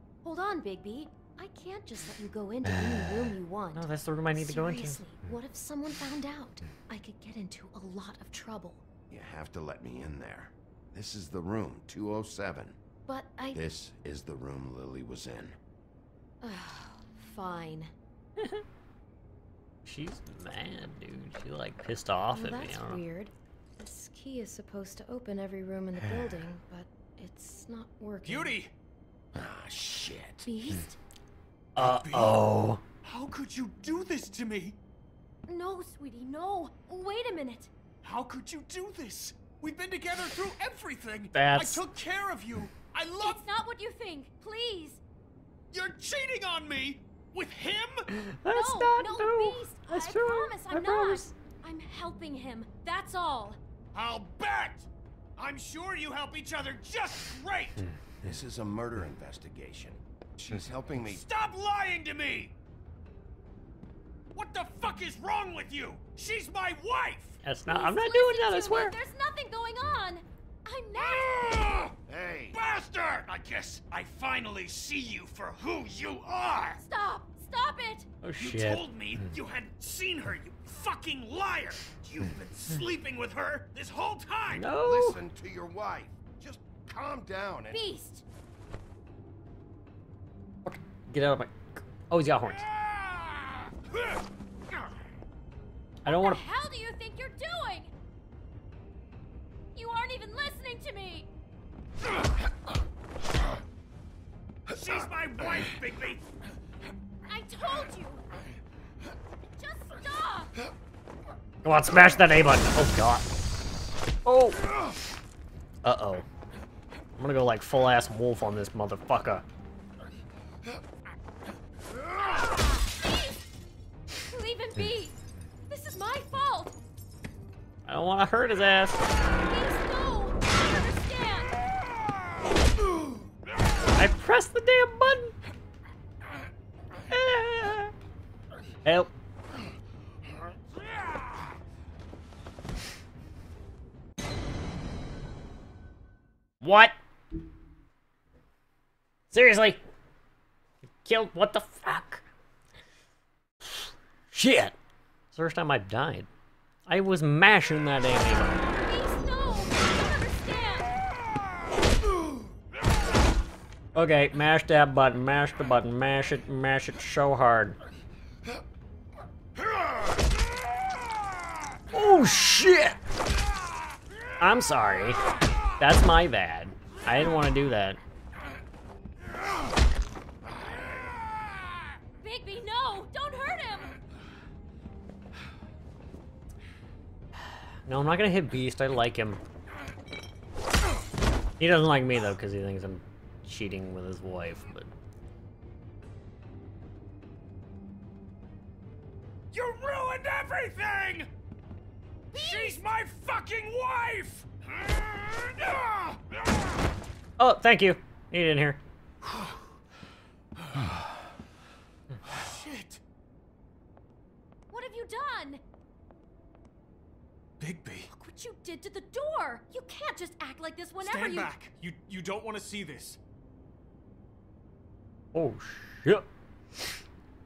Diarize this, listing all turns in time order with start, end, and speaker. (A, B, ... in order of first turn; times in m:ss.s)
0:00.2-0:08.8 A
0:03.7-0:05.0 B
0:09.1-0:12.8 C
0:13.0-0:13.6 A
0:13.5-0:15.6 C
0:16.4-0:17.9 A
0:19.8-0:23.0 B
0:22.3-0:28.6 A
0:28.2-0:28.7 D
0:29.3-0:30.5 C
0:30.4-0:31.0 A
0:31.8-0:32.8 B
0:31.8-0:32.4 D
0:33.0-0:34.8 D
0:35.5-0:37.7 A
0:38.0-0:43.4 D
0:41.3-0:41.8 B
0:43.2-0:45.0 A
0:45.7-0:48.1 D
0:48.1-0:51.3 B
0:48.5-0:53.6 A
0:53.9-0:57.8 D
0:58.2-1:01.2 C
1:01.0-1:02.5 D
1:04.3-1:07.4 D
1:07.4-1:08.9 B
1:07.7-1:11.9 A
1:10.9-1:11.9 D
1:12.0-1:12.6 C
1:12.5-1:16.8 D
1:16.8-1:18.1 A
1:18.2-1:18.8 B
1:18.4-1:24.7 D
1:24.5-1:25.2 B
1:24.8-1:27.9 C
1:27.7-1:28.2 A
1:30.6-1:31.5 B
1:32.1-1:32.6 B
1:36.0-1:36.4 B
1:36.0-1:37.9 A
1:39.8-1:41.3 A
1:44.7-1:46.2 D
1:47.2-1:48.2 A
1:49.6-1:50.5 A
1:51.6-1:53.3 B
1:54.2-1:54.6 B
1:55.8-1:56.2 B
1:57.2-1:59.4 B
2:02.8-2:03.3 A
2:04.3-2:05.1 A
2:05.7-2:06.8 A
2:07.8-2:09.1 B
2:09.3-2:11.6 A
2:13.9-2:15.3 B
2:17.1-2:17.9 B
2:18.8-2:19.1 B
2:26.6-2:26.9 B
2:29.3-2:29.8 B
2:31.0-2:32.2 B
2:34.3-2:34.8 B
2:35.3-2:36.3 B
2:36.9-2:38.7 B
2:38.7-2:40.9 A
2:43.9-2:47.8 B
2:51.9-2:53.0 B
2:54.4-2:55.2 B
2:55.8-2:58.0 B
3:02.2-3:03.9 A
3:07.8-3:09.4 B
3:11.6-3:14.9 B
3:19.5-3:21.3 D
3:22.3-3:24.5 D
3:22.4-3:22.7 A
3:25.1-3:26.1 D
3:27.4-3:28.8 B
3:32.3-3:33.0 D
3:34.7-3:35.6 A
3:37.6-3:38.1 D
3:38.1-3:41.5 A
3:41.0-3:43.2 D
3:45.3-3:46.2 B